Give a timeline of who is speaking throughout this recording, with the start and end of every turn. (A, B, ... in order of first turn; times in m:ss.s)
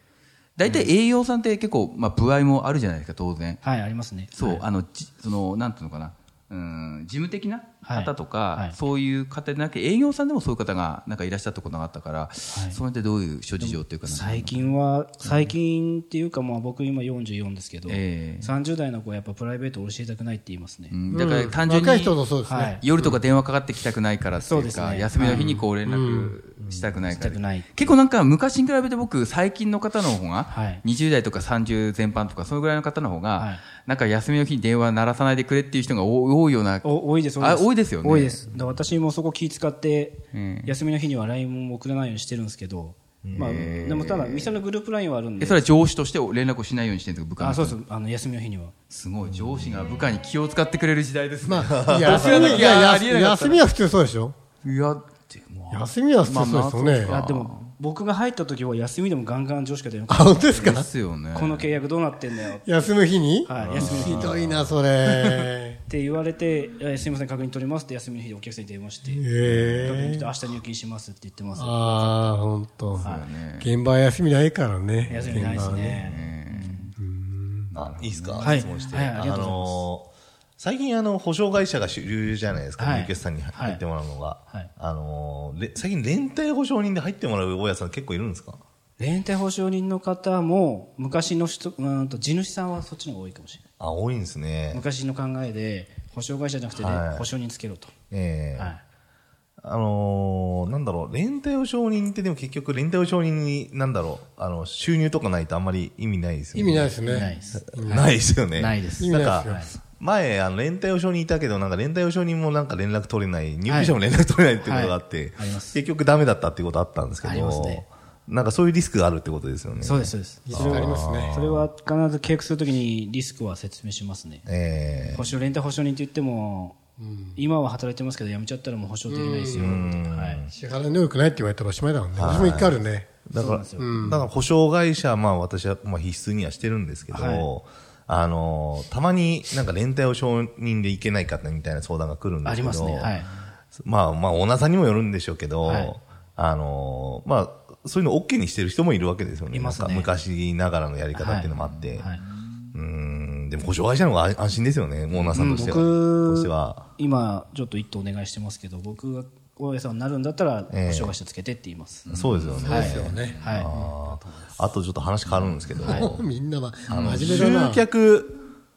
0:00.6-0:03.6 A
0:00.6-0:00.9 B
0:03.6-0:04.6 B
0:04.3-0:14.7 A
0:07.8-0:08.8 B
0:12.5-0:12.8 B
0:13.6-0:21.1 B
0:17.9-0:18.5 A
0:20.9-0:36.9 A
0:21.1-0:22.8 C
0:22.4-0:23.1 B
0:24.4-0:25.6 B
0:25.3-0:26.4 C
0:26.6-0:26.9 D
0:27.0-0:27.9 B
0:30.5-0:30.8 B
0:33.4-0:33.6 B
0:36.8-0:45.7 B
0:37.4-0:38.5 A
0:40.3-0:40.8 A
0:43.2-0:43.7 D
0:43.4-0:44.6 A
0:45.4-0:47.8 A
0:47.4-0:48.7 B
0:48.9-0:53.6 A
0:49.4-0:49.9 D
0:51.4-0:54.4 C
0:51.7-0:52.5 D
0:54.6-0:57.7 A
0:55.7-0:57.2 C
0:57.1-1:00.6 B
1:00.1-1:00.9 C
1:00.5-1:01.7 A
1:01.3-1:02.8 B
1:02.6-1:05.8 C
1:03.4-1:04.3 B
1:03.6-1:04.8 D
1:03.9-1:04.2 A
1:05.0-1:05.5 A
1:05.9-1:13.3 B
1:09.1-1:10.3 C
1:09.5-1:09.9 D
1:11.6-1:16.0 C
1:13.0-1:13.7 A
1:15.1-1:15.8 D
1:15.1-1:17.0 B
1:15.4-1:16.8 A
1:17.0-1:17.7 C
1:17.7-1:28.6 D
1:18.4-1:19.9 B
1:22.7-1:23.8 B
1:29.0-1:33.6 B
1:33.8-1:34.8 D
1:34.7-1:37.9 B
1:36.7-1:37.3 D
1:38.1-1:38.7 D
1:38.6-1:38.8 B
1:39.6-1:47.0 D
1:46.5-1:48.4 C
1:47.0-1:49.7 B
1:47.5-2:01.7 D
1:49.0-1:49.6 C
1:53.7-1:54.0 B
1:54.6-1:55.8 B
1:57.2-1:57.8 B
1:59.8-2:04.4 B
2:00.5-2:01.4 C
2:04.5-2:05.3 D
2:05.1-2:06.8 B
2:07.0-2:07.3 C
2:07.4-2:10.5 B
2:09.0-2:09.7 C
2:09.6-2:10.5 D
2:10.5-2:13.2 C
2:12.2-2:23.2 D
2:13.3-2:14.3 B
2:13.8-2:14.1 C
2:17.1-2:17.5 B
2:22.4-2:23.3 B
2:23.7-2:32.1 D
2:25.6-2:25.9 B
2:29.5-2:30.2 B
2:31.1-2:32.2 B
2:31.6-2:32.7 A
2:32.7-2:36.9 D
2:35.1-2:35.4 A
2:35.3-2:42.1 B
2:40.7-2:41.2 D
2:42.0-2:43.7 A
2:42.1-2:46.3 D
2:42.6-2:43.9 C
2:42.6-2:43.7 B
2:44.3-2:44.7 B
2:45.3-2:46.0 A
2:45.8-2:46.1 B
2:46.0-2:47.8 C
2:46.9-2:47.4 A
2:46.9-2:48.4 D